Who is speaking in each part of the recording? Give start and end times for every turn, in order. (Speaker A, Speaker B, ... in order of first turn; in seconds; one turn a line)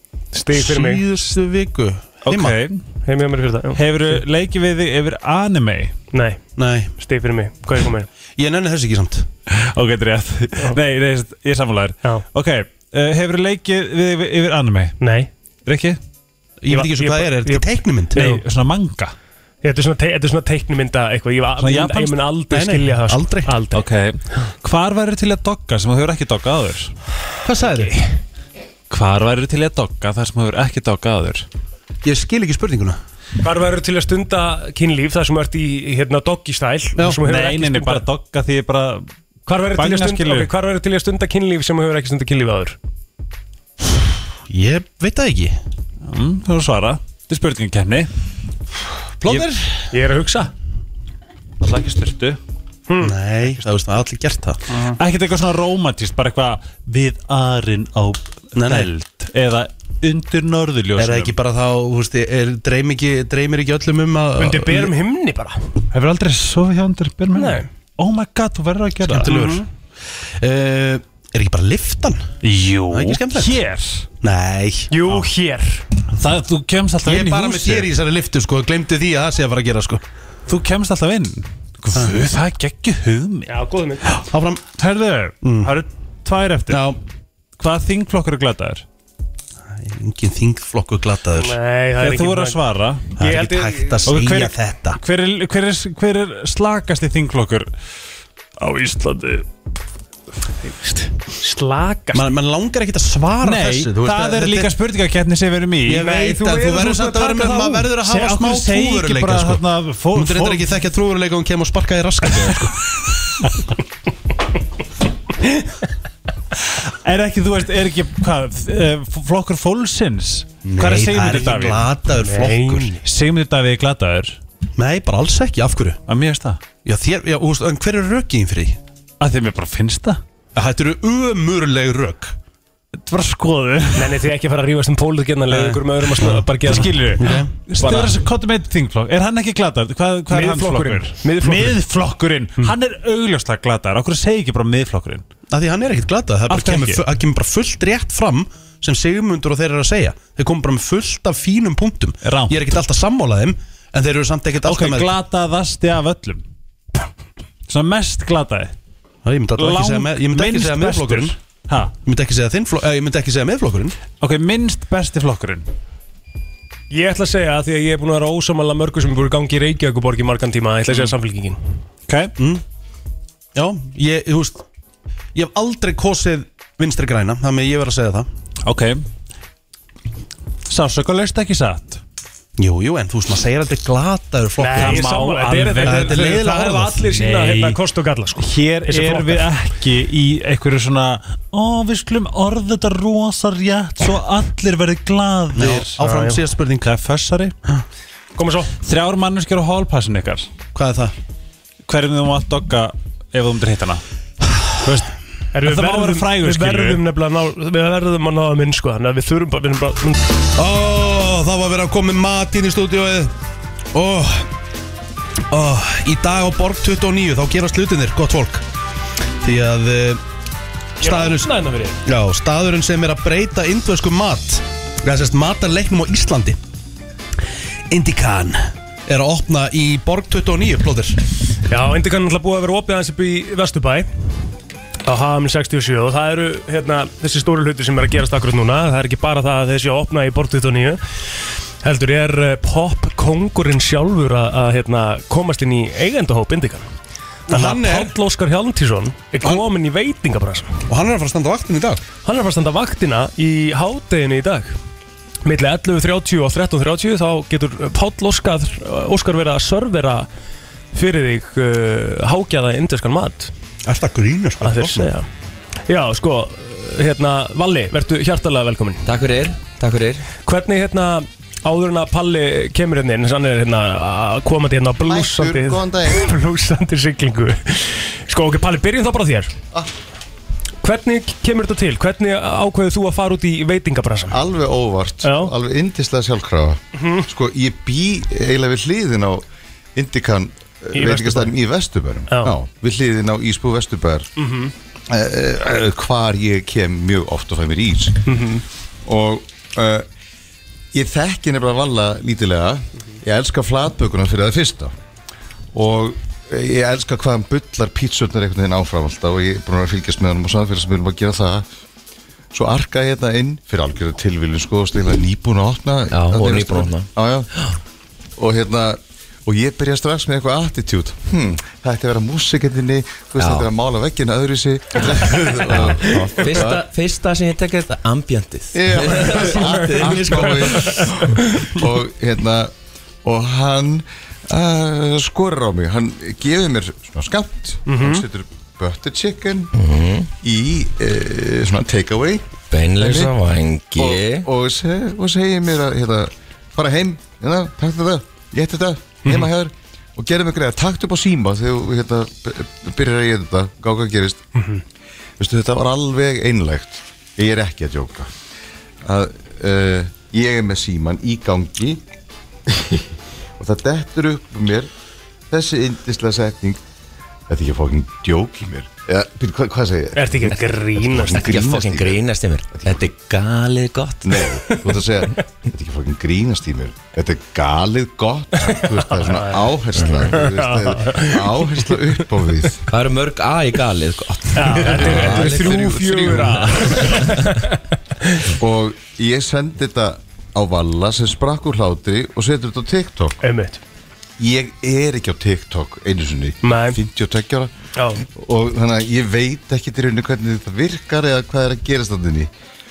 Speaker A: 0.3-1.0
Speaker B: 0.5-2.6
Speaker C: 2.2-2.8
Speaker A: 3.0-4.2
Speaker C: 3.7-5.9
Speaker A: 6.1-6.4
Speaker B: 6.5-6.9
Speaker A: 7.0-8.1
Speaker B: 8.4-9.3
Speaker C: 9.5-15.0
Speaker A: 15.0-15.3
Speaker C: 15.7-16.0
Speaker B: 16.6-18.2
Speaker A: 16.7-18.4
Speaker C: 18.1-19.1
Speaker A: 19.6-23.8
Speaker C: 21.6-22.2
Speaker B: 22.5-23.6
Speaker C: 23.7-26.9
Speaker B: 27.4-27.9
Speaker A: 27.7-28.0
Speaker C: 28.9-31.4
Speaker B: 32.0-33.0
Speaker A: 33.4-38.1
Speaker B: 37.0-37.2
Speaker C: 37.2-39.1
Speaker A: 39.5-42.8
Speaker C: 39.7-40.5
Speaker B: 44.5-45.6
Speaker C: 46.0-48.1
Speaker B: 49.2-49.8
Speaker A: 49.9-50.5
Speaker C: 51.6-52.4
Speaker A: 52.9-53.1
Speaker B: 53.0-54.6
Speaker C: 54.9-61.3
Speaker B: 58.5-58.9
Speaker B: 61.0-64.9
Speaker A: 64.4-65.6
Speaker C: 65.9-69.5
Speaker A: 67.3-67.7
Speaker B: 69.0-69.7
Speaker A: 69.1-69.6
Speaker B: 70.4-72.3
Speaker C: 72.4-74.1
Speaker B: 72.9-73.5
Speaker B: 74.2-74.9
Speaker A: 74.9-75.8
Speaker C: 76.1-77.9
Speaker B: 77.0-80.0
Speaker C: 80.5-83.5
Speaker A: 83.5-84.1
Speaker C: 84.1-86.9
Speaker B: 84.3-84.7
Speaker B: 85.4-85.7
Speaker B: 86.7-87.0
Speaker C: 87.6-88.8
Speaker B: 89.7-91.5
Speaker A: 91.3-94.2
Speaker C: 92.0-93.1
Speaker B: 93.2-95.0
Speaker C: 94.0-97.7
Speaker A: 98.6-99.4
Speaker A: 100.6-102.3
Speaker B: 102.1-104.7
Speaker C: 103.4-106.1
Speaker B: 105.8-112.8
Speaker A: 105.9-107.9
Speaker C: 108.0-110.7
Speaker C: 116.7-121.9
Speaker B: 120.6-122.9
Speaker A: 122.2-123.0
Speaker C: 123.0-124.4
Speaker B: 124.8-126.0
Speaker C: 126.1-126.6
Speaker B: 126.8-128.8
Speaker C: 129.2-130.2
Speaker B: 130.5-132.3
Speaker C: 133.0-134.2
Speaker A: 133.9-137.3
Speaker B: 135.5-138.1
Speaker C: 136.6-145.2
Speaker A: 137.8-138.1
Speaker A: 140.3-141.8
Speaker B: 145.5-155.1
Speaker C: 146.5-147.0
Speaker C: 152.2-152.7
Speaker C: 154.6-156.4
Speaker C: 157.7-158.7
Speaker B: 159.2-161.4
Speaker C: 159.6-161.9
Speaker B: 162.0-164.0
Speaker C: 164.2-165.7
Speaker A: 166.9-171.6
Speaker C: 172.1-172.3
Speaker B: 172.4-172.6
Speaker B: 173.5-174.6
Speaker B: 175.3-178.3
Speaker C: 178.6-179.0
Speaker C: 180.7-182.0
Speaker B: 182.6-185.1
Speaker A: 184.6-189.5
Speaker C: 184.7-186.4
Speaker B: 185.8-187.0
Speaker C: 187.0-187.8
Speaker C: 188.4-196.0
Speaker B: 195.5-196.9
Speaker A: 196.0-196.4
Speaker C: 196.8-197.5
Speaker A: 198.3-198.7
Speaker C: 198.8-200.5
Speaker B: 200.7-201.1
Speaker C: 201.8-204.0
Speaker C: 204.8-207.0
Speaker A: 205.5-210.3
Speaker B: 210.6-213.3
Speaker B: 213.9-214.5
Speaker B: 215.5-218.6
Speaker B: 219.4-220.2
Speaker B: 221.0-226.6
Speaker A: 221.0-222.0
Speaker B: 227.9-231.2
Speaker A: 231.7-234.1
Speaker A: 235.0-241.0
Speaker A: 241.8-246.8
Speaker B: 247.5-248.1
Speaker A: 247.5-250.8
Speaker B: 250.9-252.0
Speaker A: 252.2-254.7
Speaker A: 255.4-260.3
Speaker A: 260.9-263.5
Speaker B: 263.8-265.1
Speaker A: 264.6-265.3
Speaker A: 265.9-269.0
Speaker D: 269.0-270.2
Speaker A: 270.4-279.5
Speaker E: 275.0-276.3
Speaker A: 280.8-284.4
Speaker E: 284.3-289.4
Speaker A: 285.2-285.5
Speaker A: 286.9-287.3
Speaker E: 289.9-294.3
Speaker A: 290.9-291.5
Speaker A: 292.3-292.5
Speaker A: 294.4-294.7
Speaker E: 295.1-298.2
Speaker A: 298.2-298.6
Speaker E: 299.1-300.1
Speaker E: 300.9-304.9
Speaker E: 305.7-311.6
Speaker E: 312.5-317.5
Speaker D: 316.1-317.7
Speaker E: 318.4-326.9
Speaker D: 323.4-323.7
Speaker D: 325.7-331.3
Speaker E: 328.7-332.7
Speaker A: 329.0-331.6
Speaker E: 333.2-339.7
Speaker A: 337.9-338.2
Speaker D: 339.7-340.3
Speaker E: 340.4-343.3
Speaker D: 342.7-344.4
Speaker E: 343.9-354.4
Speaker E: 355.4-358.3
Speaker E: 359.0-362.0
Speaker E: 362.7-363.0
Speaker E: 363.6-364.9
Speaker E: 365.5-366.8
Speaker E: 367.5-373.1
Speaker A: 370.1-371.5
Speaker D: 371.3-374.3
Speaker E: 374.2-382.9
Speaker A: 378.6-381.9
Speaker D: 380.0-380.4
Speaker D: 382.9-385.7
Speaker A: 384.5-388.4
Speaker E: 384.7-387.1
Speaker E: 388.6-393.4
Speaker A: 393.4-393.8
Speaker E: 394.4-397.7
Speaker A: 396.6-397.0
Speaker A: 397.9-398.2
Speaker E: 398.3-402.5